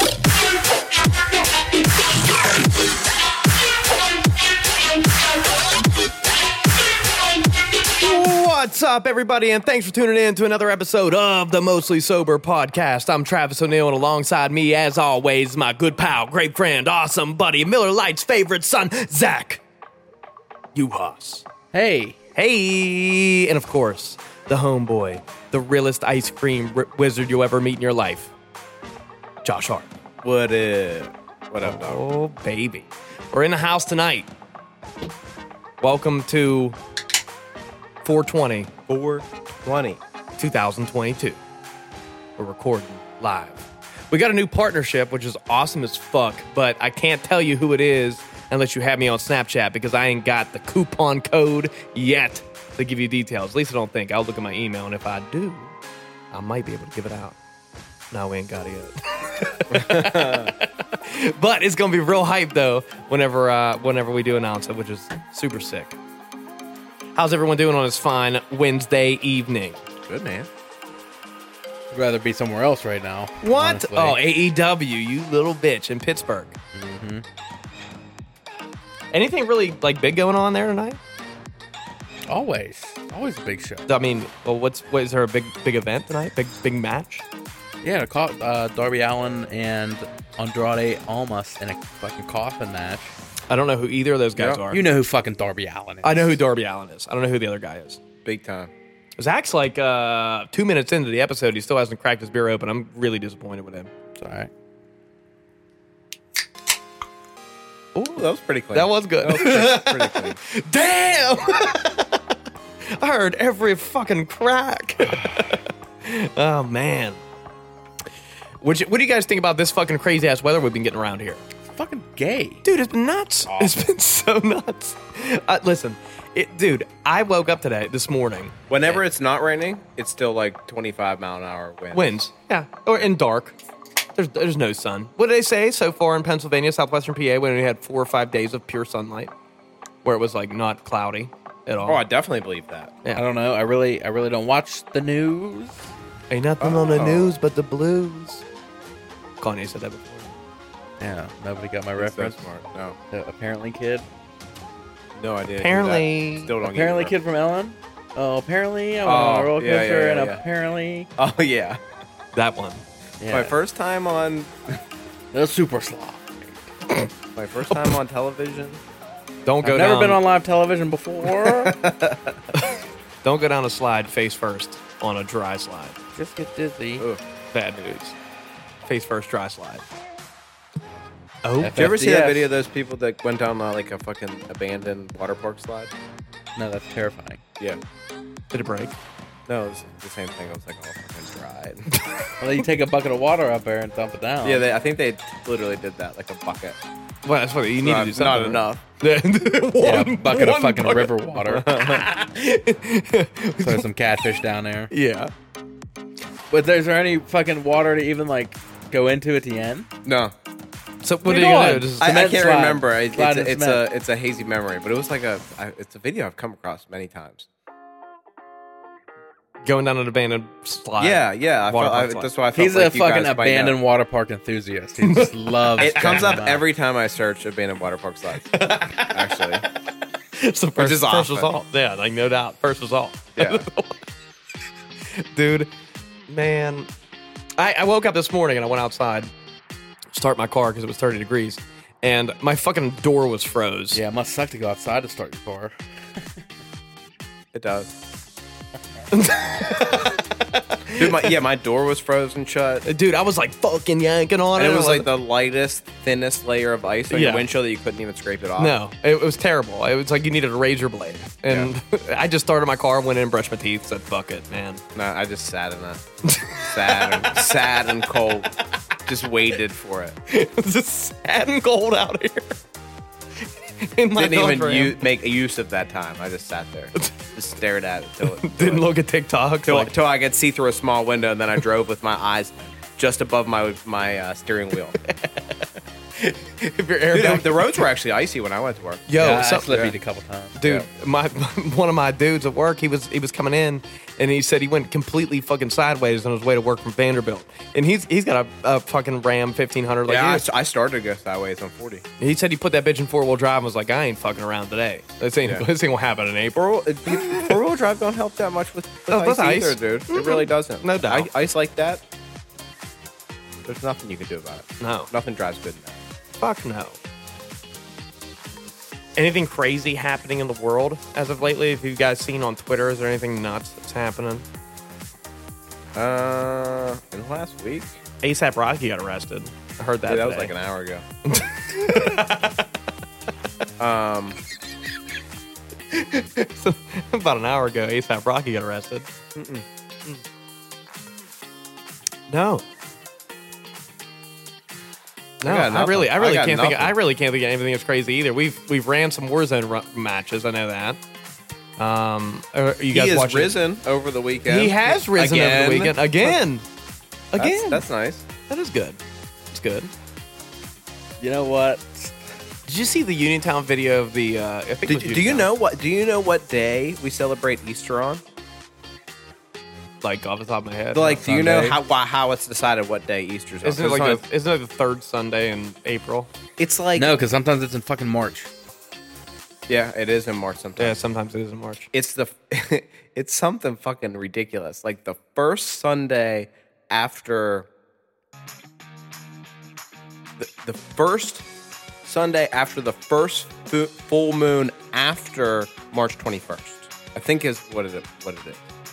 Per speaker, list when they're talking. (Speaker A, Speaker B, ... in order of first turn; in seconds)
Speaker A: 8.0-19.6, 20.7-21.4, 22.4-28.3, 29.4-29.9, 31.6-34.3, 35.8-36.8, 38.0-38.7, 40.4-41.4, 42.4-55.7, 56.3-57.4, 58.1-66.0, 67.1-69.8, 73.4-76.6, 79.1-81.0, 83.9-87.2, 93.5-94.8, 96.0-98.0, 99.2-103.9, 108.7-112.1, 112.9-117.2, 118.6-121.4, 122.6-128.5, 131.9-133.6, 134.2-139.3, 140.0-142.0, 146.3-148.4, 149.4-150.3, 155.6-156.5, 162.3-162.8, 169.4-170.2, 172.6-176.0, 177.5-178.1, 178.8-179.8, 181.4-181.9, 188.5-188.9, 197.2-203.9, 204.9-205.3, 211.0-212.1, 219.6-222.3, 225.0-226.3, 228.5-229.2, 230.3-234.0, 235.1-235.7, 236.3-236.9, 237.6-239.3, 240.1-244.0, 249.1-251.3, 252.8-255.1, 257.1-257.4, 258.6-264.8, 266.3-267.5, 270.3-272.5, 273.6-275.0, 278.4-279.9, 285.1-285.6, 286.2-287.9, 289.1-289.9, 290.6-300.5, 302.2-307.5, 309.1-311.3, 314.8-315.1, 316.4-316.9, 319.1-324.4, 328.2-330.5, 331.2-332.6, 335.9-339.1, 342.3-342.6, 345.4-351.0, 351.8-353.5, 354.4-356.6, 357.3-357.9, 358.5-359.0, 359.5-359.9, 362.7-365.5, 370.0-371.2, 373.6-376.3, 380.8-381.9
Speaker B: 21.7-22.1, 71.9-74.3, 76.7-77.2, 82.3-83.9, 87.8-93.1, 94.7-96.4, 104.2-104.5, 121.7-122.6, 123.5-123.7, 143.1-145.8, 151.0-152.4, 153.1-154.0, 156.6-161.1, 163.2-163.6, 165.3-166.6, 169.6-171.7, 176.1-177.1, 181.6-182.5, 186.6-187.4, 192.4-194.7, 199.8-201.7, 203.6-204.9, 206.5-209.9, 211.2-213.8, 222.5-226.6, 243.9-245.7, 289.1-290.9, 361.2-362.1, 371.2-371.8, 376.9-378.5
Speaker C: 30.2-32.0, 38.9-40.0, 59.7-60.5, 70.0-70.5, 98.2-98.7, 108.0-110.4, 128.7-132.2, 141.8-142.9, 146.6-147.3, 152.0-152.9, 155.1-157.1, 159.0-160.4, 161.2-161.8, 163.3-164.8, 167.3-168.8, 171.3-172.3, 181.7-185.9, 189.5-191.9, 194.4-196.8, 197.8-198.8, 201.6-202.0, 210.0-210.3, 212.0-217.5, 221.0-223.8, 225.8-229.6, 230.8-231.5, 233.3-233.6, 247.5-247.9, 250.9-252.8, 254.6-258.8, 264.9-266.0, 266.5-268.5, 269.1-270.1, 274.2-278.9, 279.6-285.0, 287.1-289.0, 300.1-302.0, 306.8-312.0, 313.6-316.0, 325.9-328.0, 330.1-331.0, 333.8-334.4, 339.3-339.6, 345.4-346.9, 352.9-356.4, 357.4-358.2, 364.9-368.2, 370.9-374.2, 376.6-377.1, 379.7-381.0, 381.9-387.7, 390.4-391.4, 392.0-398.6